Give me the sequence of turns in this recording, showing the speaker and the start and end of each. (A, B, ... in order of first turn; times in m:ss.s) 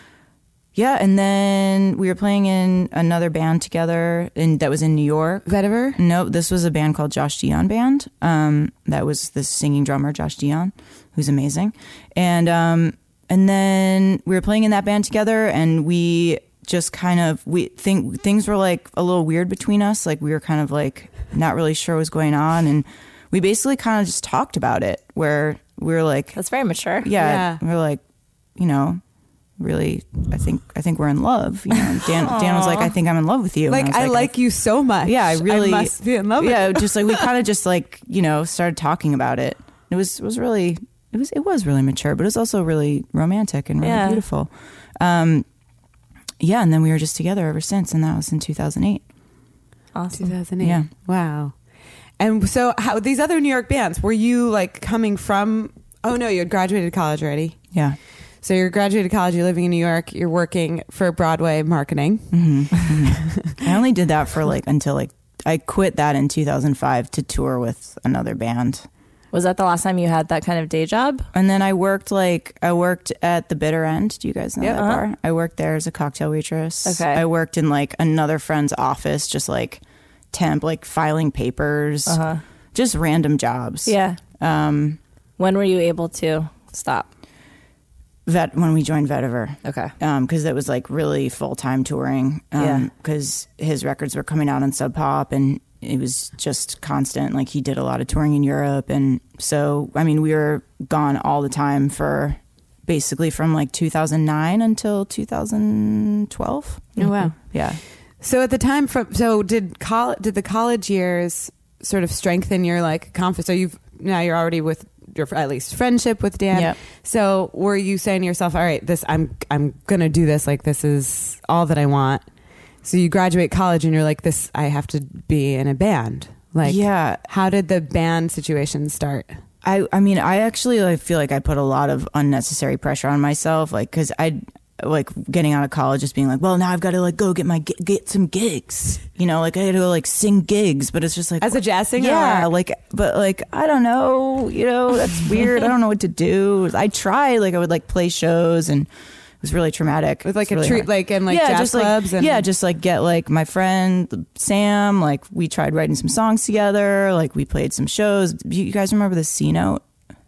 0:00.7-0:26.4 A
0:05.5-0:06.0 B
0:26.4-0:27.1 C
0:27.0-0:28.0 A
0:27.2-0:27.6 B
0:28.6-0:29.0 A
0:29.6-0:34.4 A
0:32.2-0:32.9 C
0:33.7-0:37.3 B
0:35.0-0:45.4 A
0:43.8-0:44.2 C
0:46.4-0:49.0 A
0:49.9-0:50.4 C
0:50.2-0:51.6 B
0:50.6-0:50.9 A
0:52.2-0:57.6 B
0:58.4-1:03.6 B
1:02.3-1:08.9 A
1:09.3-1:11.3 C
1:11.3-1:22.2 A
1:14.6-1:15.0 C
1:16.9-1:17.2 C
1:22.1-1:22.4 C
1:22.7-1:25.0 A
1:23.9-1:24.2 C
1:25.4-1:27.1 C
1:28.3-1:47.8 A
1:29.6-1:29.9 C
1:32.6-1:32.9 C
1:47.0-1:47.3 C
1:47.0-1:47.5 B
1:48.2-2:02.2 B
1:56.5-1:56.8 A
2:02.8-2:09.3 B
2:06.6-2:07.2 A
2:09.6-2:28.9 A
2:21.4-2:22.5 B
2:29.4-2:39.8 A
2:30.2-2:32.4 B